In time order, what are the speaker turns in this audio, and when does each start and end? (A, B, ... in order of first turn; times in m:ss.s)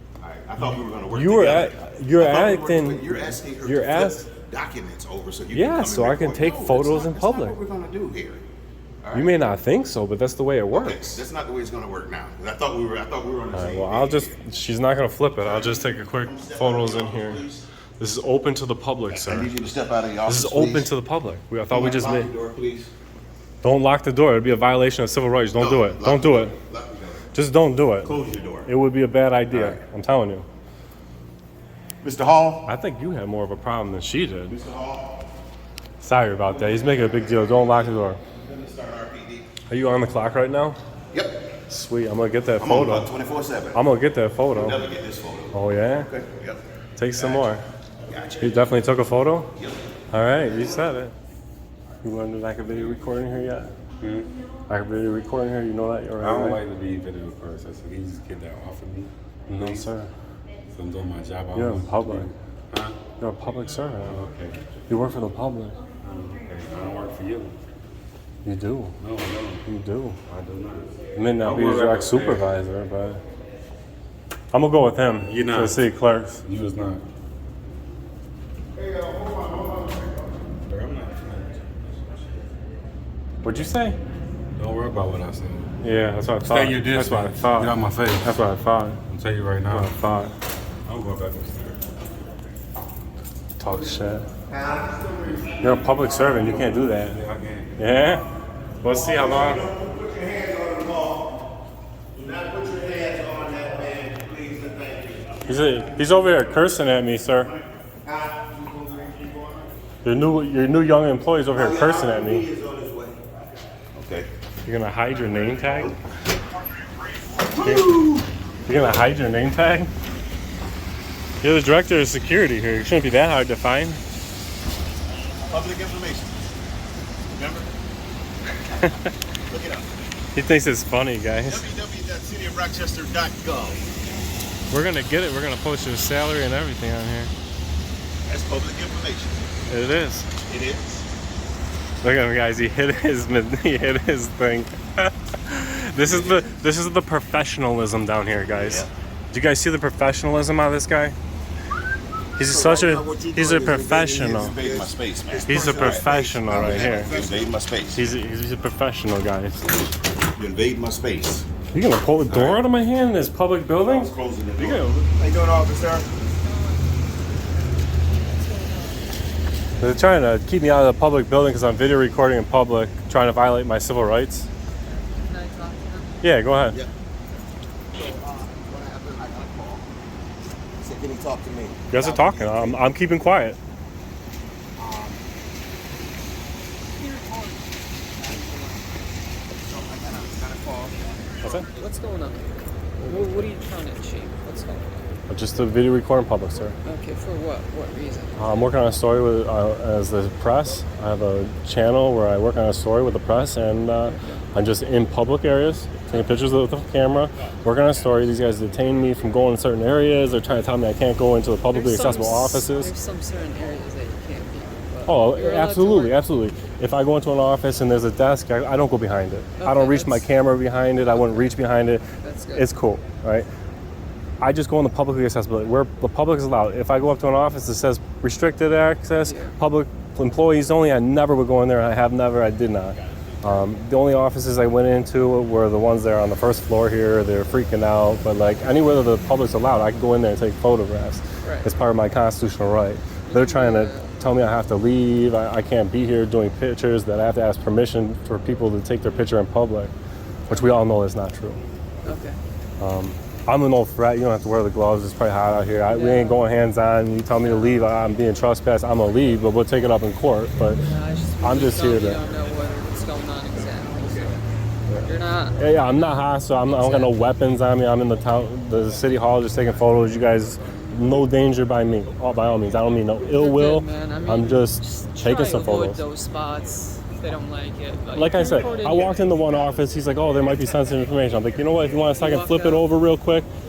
0:00.2-0:08.4 A
0:01.1-0:04.2 B
0:05.5-0:07.6 B
0:09.0-0:09.4 A
0:09.1-0:11.2 B
0:10.7-0:14.4 A
0:13.5-0:17.4 B
0:15.4-0:17.6 A
0:18.0-0:19.5 B
0:19.1-0:20.9 A
0:20.2-0:22.3 B
0:21.7-0:22.9 A
0:23.6-0:26.6 B
0:25.5-0:27.3 A
0:27.3-0:28.1 B
0:28.0-0:28.7 A
0:28.6-0:30.4 B
0:29.5-0:29.8 A
0:32.0-0:32.7 A
0:32.6-0:34.5 B
0:34.5-0:35.2 A
0:36.0-0:38.2 B
0:36.4-0:39.5 A
0:39.7-0:40.8 B
0:41.1-0:41.4 A
0:41.7-0:43.1 B
0:42.6-0:43.8 A
0:43.7-0:44.8 B
0:44.5-0:46.6 A
0:45.5-0:46.1 B
0:47.0-0:47.6 B
0:47.1-0:47.5 A
0:48.1-0:48.8 A
0:48.4-0:49.5 B
0:49.6-0:49.8 A
0:50.1-0:51.1 B
0:52.0-0:53.7 B
0:54.0-0:54.3 C
0:54.7-0:56.6 B
0:56.2-0:59.8 C
0:59.5-1:00.1 B
1:00.7-1:03.0 C
1:01.5-1:02.3 B
1:03.2-1:04.2 B
1:04.0-1:04.6 C
1:04.9-1:05.8 B
1:06.0-1:07.6 C
1:08.4-1:08.9 B
1:09.0-1:09.6 C
1:09.6-1:10.2 B
1:10.3-1:12.5 C
1:11.2-1:13.2 B
1:14.5-1:16.4 B
1:15.2-1:15.9 C
1:16.4-1:17.0 C
1:20.6-1:21.6 C
1:23.4-1:24.0 B
1:24.6-1:25.7 C
1:25.8-1:29.0 B
1:26.4-1:28.3 C
1:29.1-1:29.9 C
1:29.7-1:30.3 B
1:30.8-1:31.8 C
1:33.6-1:34.3 B
1:34.6-1:35.5 A
1:35.6-1:37.2 B
1:37.1-1:37.8 C
1:37.8-1:38.3 B
1:38.8-1:39.7 B
1:39.7-1:41.1 A
1:39.8-1:41.2 D
1:42.2-1:45.3 A
1:42.2-1:45.4 D
1:45.4-1:47.5 B
1:48.0-1:49.5 D
1:48.3-1:49.2 A
1:50.0-1:52.5 B
1:51.6-1:53.2 D
1:52.5-1:53.2 A
1:53.9-1:54.3 A
1:54.6-1:56.0 B
1:57.5-1:58.2 A
1:57.5-1:58.1 B
1:58.6-1:59.9 B
2:01.4-2:04.0 B
2:05.4-2:06.4 A
2:07.3-2:07.7 A
2:09.5-2:09.9 A
2:10.3-2:11.6 B
2:11.4-2:13.9 A
2:14.7-2:17.3 B
2:18.2-2:19.5 A
2:19.7-2:20.3 B
2:20.4-2:21.1 A
2:22.0-2:31.2 B
2:26.0-2:26.5 A
2:28.6-2:28.9 A
2:32.4-2:34.6 B
2:32.5-2:38.0 A
2:35.4-2:37.1 B
2:37.9-2:39.6 B
2:40.3-2:41.4 A
2:41.7-2:45.1 B
2:42.3-2:42.6 A
2:43.8-2:46.1 A
2:46.2-2:47.1 E
2:47.6-2:49.1 E
2:49.8-2:54.5 B
2:54.7-2:56.2 E
2:56.2-2:56.8 B
2:58.0-2:59.8 A
3:00.8-3:02.8 A
3:01.9-3:03.6 B
3:04.8-3:05.2 A
3:07.0-3:07.5 A
3:08.2-3:08.9 A
3:09.6-3:10.9 A
3:11.4-3:11.7 B
3:11.6-3:15.1 E
3:15.3-3:16.8 B
3:16.8-3:18.5 E
3:18.4-3:32.9 B
3:24.1-3:24.4 E
3:31.7-3:36.2 E
3:35.0-3:43.5 B
3:39.6-3:40.3 E
3:41.0-3:41.5 E
3:42.2-3:42.7 E
3:44.4-4:09.9 B
3:49.2-3:49.6 E
4:01.4-4:01.7 E
4:03.3-4:04.2 E
4:10.5-4:11.6 B
4:10.5-4:10.8 E
4:12.0-4:12.4 E
4:12.8-4:20.8 B
4:15.9-4:16.4 E
4:17.3-4:17.8 E
4:20.8-4:24.4 E
4:21.4-4:22.2 B
4:24.9-4:36.0 B
4:25.0-4:27.2 E
4:33.3-4:39.3 E
4:38.1-4:43.5 B
4:42.1-4:42.8 E